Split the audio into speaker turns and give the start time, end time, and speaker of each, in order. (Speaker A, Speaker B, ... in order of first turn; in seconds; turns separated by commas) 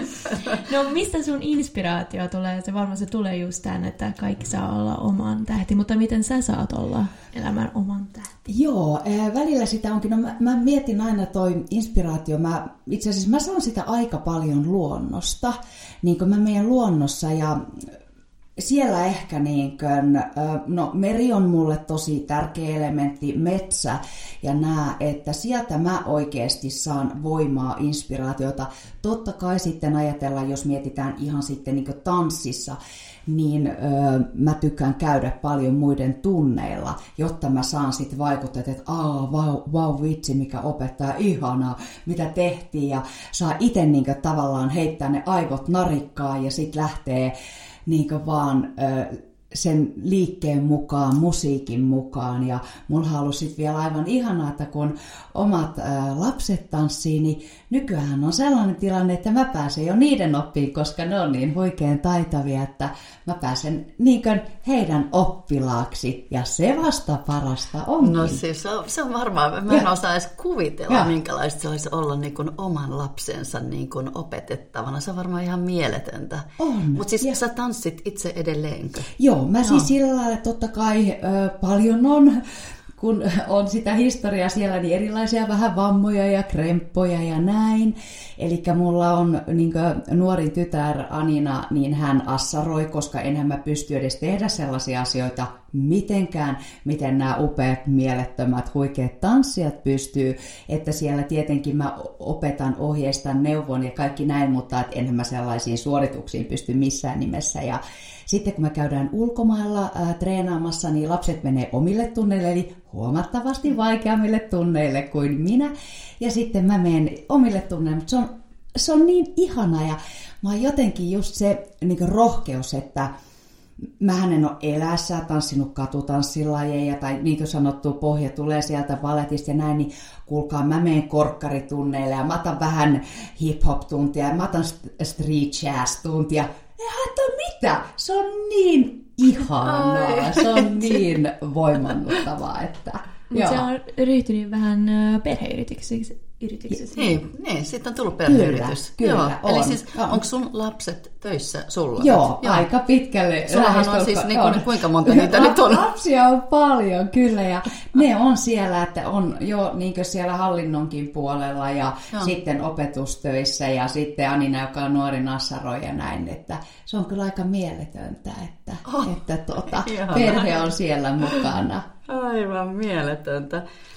Speaker A: 0.2-0.6, Speaker B: 0.5-8.3, Speaker C: 8.5-17.9, Speaker C: 18.6-47.3, Speaker C: 47.9-68.4, Speaker A: 68.0-79.1, Speaker C: 76.6-77.4, Speaker C: 79.2-82.4, Speaker C: 83.0-123.1, Speaker C: 124.0-143.6, Speaker A: 139.6-141.0, Speaker B: 143.3-147.2, Speaker A: 146.9-152.7, Speaker C: 148.2-150.2, Speaker C: 152.0-171.8, Speaker A: 153.5-155.9, Speaker A: 168.8-169.1, Speaker A: 169.7-170.7, Speaker A: 172.1-173.6